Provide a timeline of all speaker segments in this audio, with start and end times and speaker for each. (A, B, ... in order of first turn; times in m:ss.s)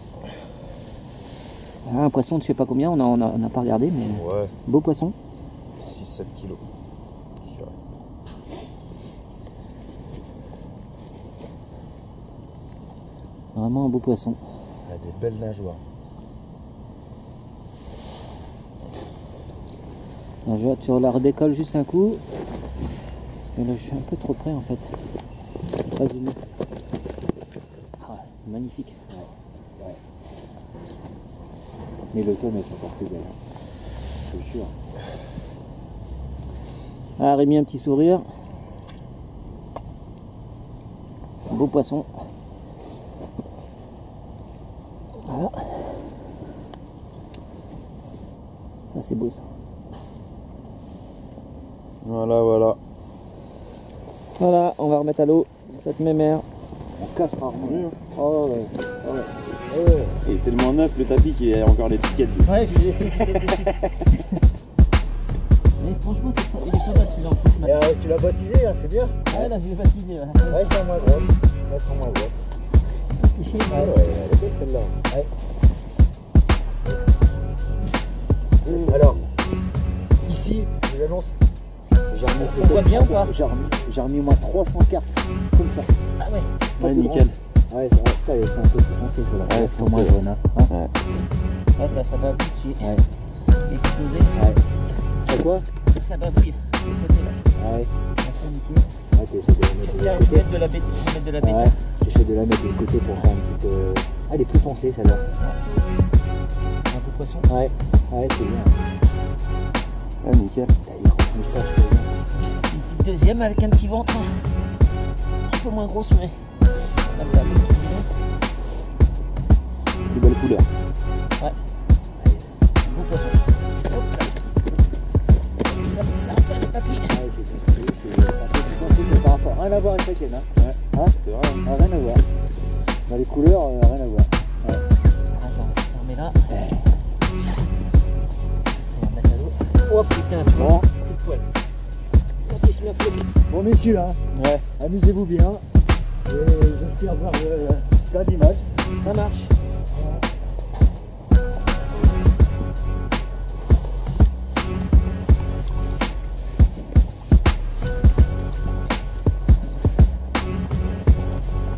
0:01.8-0:05.2 A
0:04.1-0:04.5 B
0:05.8-0:06.6 B
0:07.4-0:07.7 B
0:13.5-0:14.4 A
0:14.8-0:15.8 B
0:20.4-0:22.2 A
0:23.4-0:25.0 A
0:26.0-0:26.4 A
0:28.0-0:29.0 A
0:29.1-0:30.0 C
0:32.1-0:33.4 C
0:34.2-0:34.7 C
0:37.2-0:38.3 A
0:41.4-0:42.1 A
0:45.2-0:46.0 A
0:48.9-0:49.4 A
0:52.0-0:52.8 B
0:54.4-0:56.4 A
0:57.0-0:58.9 C
0:57.6-0:58.0 B
0:59.7-1:00.2 C
1:00.2-1:02.5 B
1:02.4-1:04.4 A
1:05.8-1:07.8 A
1:07.6-1:09.5 C
1:09.3-1:10.8 A
1:10.5-1:12.5 C
1:13.2-1:13.9 A
1:13.7-1:15.0 B
1:18.6-1:19.3 C
1:20.2-1:21.4 C
1:22.1-1:25.9 C
1:22.4-1:23.3 A
1:26.2-1:26.5 A
1:26.8-1:27.4 B
1:26.8-1:30.7 C
1:29.4-1:30.9 B
1:31.7-1:34.4 A
1:34.3-1:35.7 C
1:35.9-1:37.4 A
1:37.5-1:37.9 C
1:38.2-1:38.9 A
1:39.1-1:40.5 C
1:39.8-1:41.8 A
1:41.4-1:45.2 C
1:46.9-1:47.5 A
1:47.5-1:48.7 C
1:50.2-1:50.7 B
1:50.8-1:52.1 C
1:52.4-1:54.6 A
1:55.4-1:58.1 A
2:00.0-2:00.7 B
2:02.2-2:02.5 C
2:02.8-2:04.3 A
2:05.6-2:07.2 A
2:07.1-2:12.3 C
2:10.6-2:11.6 B
2:13.1-2:14.9 C
2:15.3-2:16.5 A
2:16.5-2:16.9 C
2:18.8-2:21.5 A
2:20.5-2:20.8 C
2:22.4-2:23.3 A
2:23.5-2:25.6 C
2:24.3-2:24.6 B
2:26.2-2:28.7 C
2:28.9-2:29.5 A